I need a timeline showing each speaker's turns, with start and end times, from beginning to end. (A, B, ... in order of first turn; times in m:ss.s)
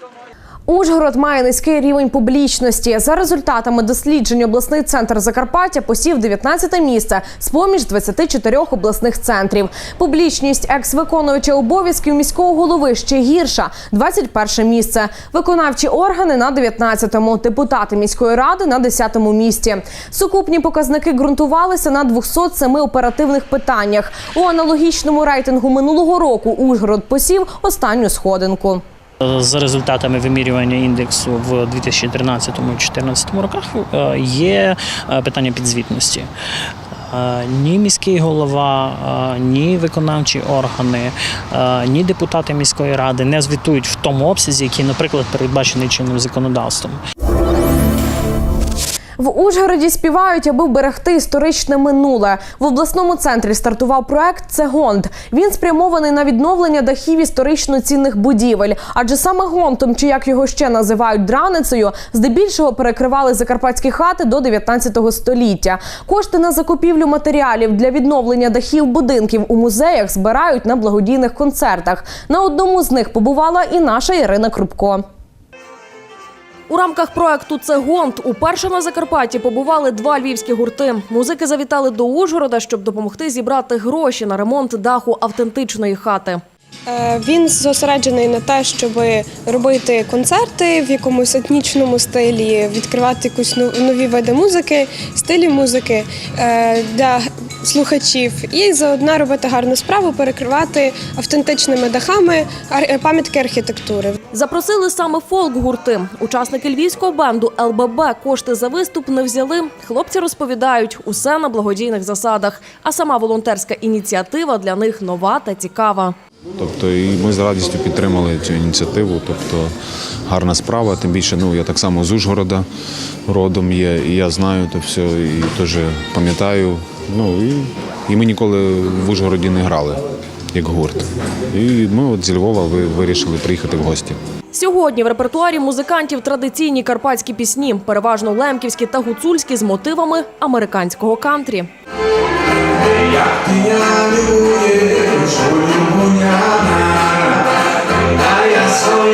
0:00.7-0:28.8 A
0:29.2-0:36.3 B
0:37.1-0:47.0 B
0:49.2-1:15.0 A
1:16.7-1:26.4 C
1:26.9-1:44.2 D
1:44.3-1:56.2 C
1:56.6-1:59.8 E
2:00.2-2:02.7 E
2:03.2-2:10.0 E
2:10.5-2:14.2 E
2:14.5-2:21.7 C